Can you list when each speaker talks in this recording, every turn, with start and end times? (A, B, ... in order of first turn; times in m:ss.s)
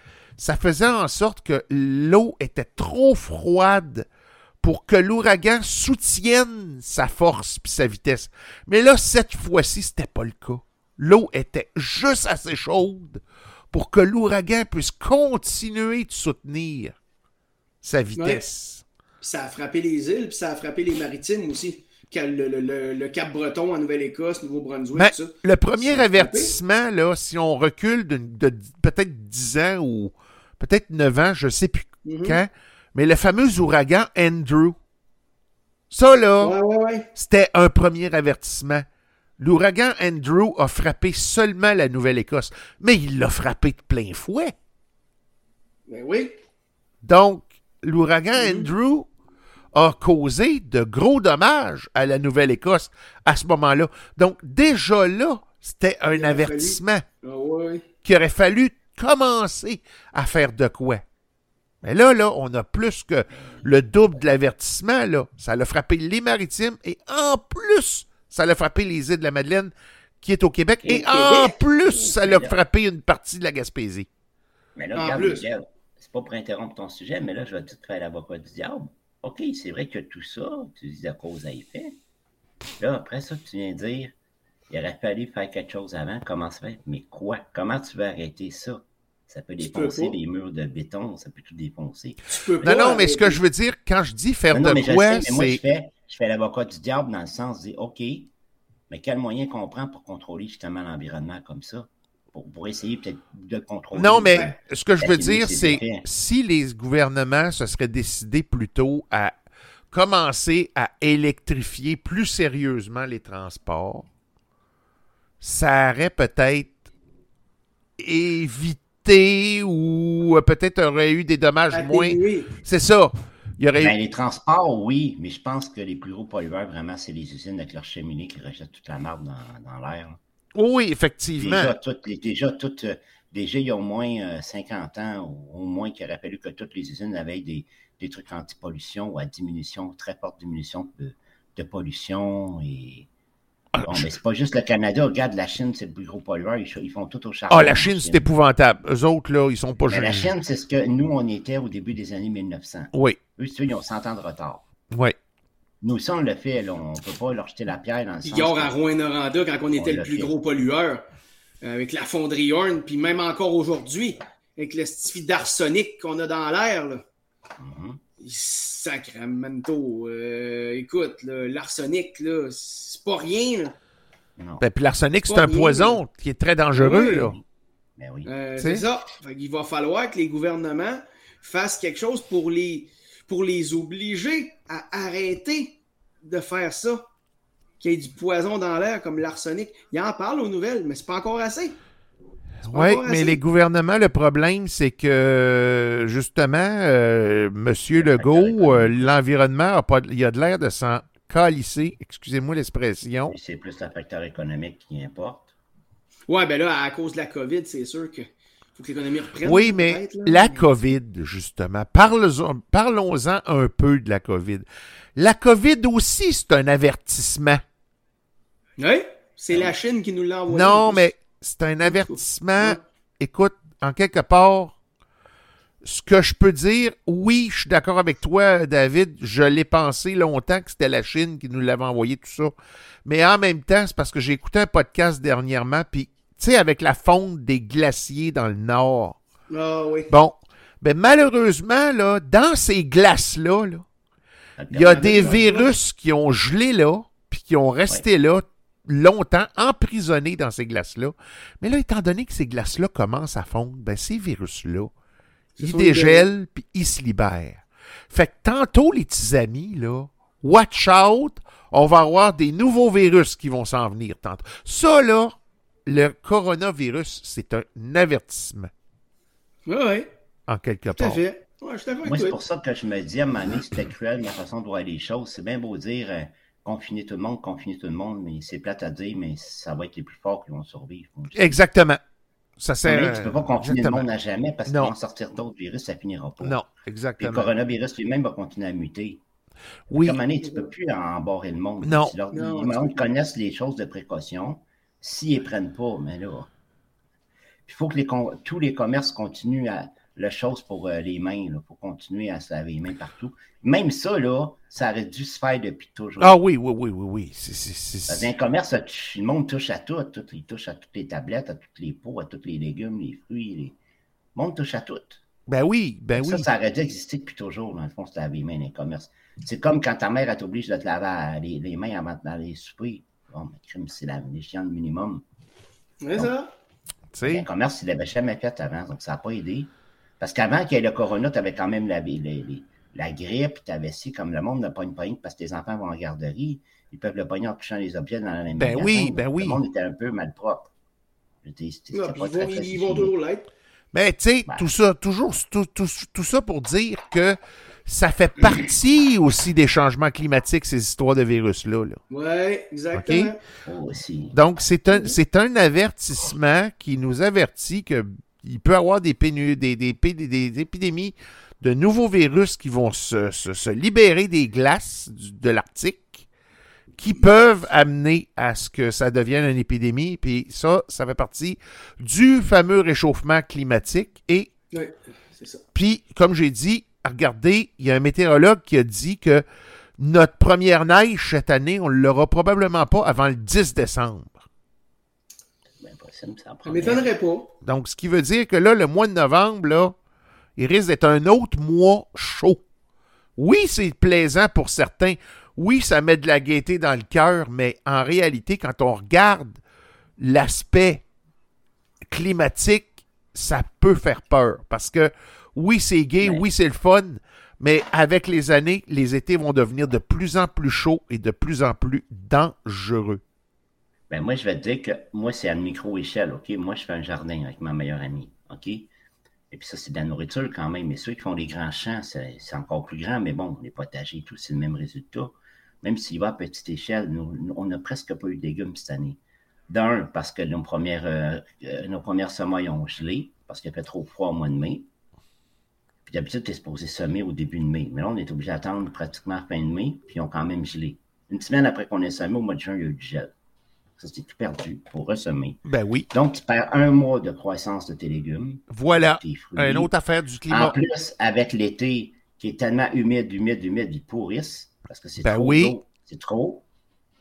0:00.4-0:04.1 A
0:04.6-0:16.9 A
0:17.8-0:18.8 A
0:18.1-0:18.4 B
0:19.2-0:26.5 B
0:25.0-0:34.8 A
0:32.0-0:32.4 B
0:35.9-0:36.5 A
0:36.4-0:37.1 B
0:37.1-0:38.8 A
0:39.4-0:44.5 A
0:45.9-0:46.4 B
0:47.0-0:49.1 A
0:48.4-0:48.7 B
0:49.7-0:57.0 A
0:56.1-0:57.8 B
0:58.0-1:01.0 A
1:01.8-1:14.1 A
1:10.8-1:11.6 B
1:12.2-1:12.6 C
1:14.8-1:21.9 C
1:14.9-1:15.4 B
1:22.8-1:24.1 C
1:24.7-1:32.2 C
1:29.6-1:30.2 B
1:32.3-1:33.4 B
1:32.6-1:35.6 A
1:34.5-1:38.3 C
1:38.9-1:46.0 C
1:43.9-1:49.3 A
1:49.9-1:54.0 A
1:55.4-1:56.7 A
1:58.0-2:04.0 A
2:01.7-2:02.5 B
2:03.8-2:10.2 C
2:10.5-2:11.7 A
2:11.4-2:23.1 C
2:23.7-2:24.1 A
2:23.8-2:28.3 C
2:27.5-2:30.3 A
2:29.9-2:34.6 C
2:32.9-2:33.2 A
2:34.9-2:35.2 A
2:35.8-2:38.7 C
2:38.2-2:41.0 B
2:39.7-2:40.3 C
2:41.6-2:47.0 B
2:47.6-2:48.0 C
2:48.2-2:53.7 B
2:54.4-2:54.6 C
2:54.6-2:57.4 A
2:55.3-2:56.0 B
2:56.8-2:57.3 B
2:58.0-2:58.3 C
2:58.2-3:07.0 B
2:58.6-2:58.8 A
3:07.8-3:11.8 B
3:12.6-3:13.4 B
3:12.6-3:23.3 A
3:17.9-3:19.1 C
3:23.3-3:25.5 C
3:26.3-3:30.6 B
3:29.4-3:34.6 A
3:35.2-3:37.6 A
3:38.8-3:41.1 B
3:40.5-3:44.8 A
3:41.8-3:42.8 B
3:45.8-3:52.5 A
3:53.0-3:59.2 A
3:59.5-4:00.1 B
4:00.1-4:03.8 A
4:04.6-4:05.4 C
4:04.7-4:14.9 A
4:04.8-4:05.7 B
4:15.6-4:16.2 B
4:15.6-4:28.7 A
4:29.6-4:30.1 B
4:30.5-4:31.2 A
4:31.0-4:32.3 B
4:32.0-4:41.6 C
4:41.3-4:42.0 A
4:42.6-4:44.0 A
4:42.8-4:46.6 C
4:44.7-4:44.9 A
4:46.4-4:47.5 A
4:47.2-4:49.2 C
4:49.9-4:50.2 A
4:50.0-4:56.5 C
4:51.8-4:52.1 A
4:52.3-4:53.1 B
4:57.7-5:06.4 C
5:06.2-5:08.3 A
5:08.1-5:13.8 C
5:14.3-5:15.2 C
5:15.5-5:16.5 A
5:16.1-5:25.2 C
5:26.0-5:26.5 B
5:27.1-5:27.4 A
5:27.2-5:40.7 C
5:38.6-5:39.6 A
5:41.4-5:43.1 C
5:41.9-5:43.5 B
5:43.9-5:52.0 A
5:52.1-5:53.4 B
5:52.9-5:53.3 A
5:53.6-5:54.4 C
5:54.3-6:06.2 A
6:07.0-6:14.5 A
6:14.7-6:15.6 B
6:15.7-6:19.4 A
6:20.0-6:24.4 A
6:25.8-6:27.1 C
6:26.6-6:27.5 B
6:27.6-6:29.9 A
6:30.6-6:32.6 A
6:33.4-6:39.6 A
6:40.2-6:41.0 A
6:42.1-6:53.2 A
6:54.1-6:58.9 C
6:59.5-7:14.8 C
7:16.0-7:23.3 C
7:24.0-7:25.6 C
7:25.6-7:26.1 A
7:26.1-7:29.9 C
7:28.7-7:30.8 A
7:30.5-7:36.6 C
7:35.2-7:35.8 A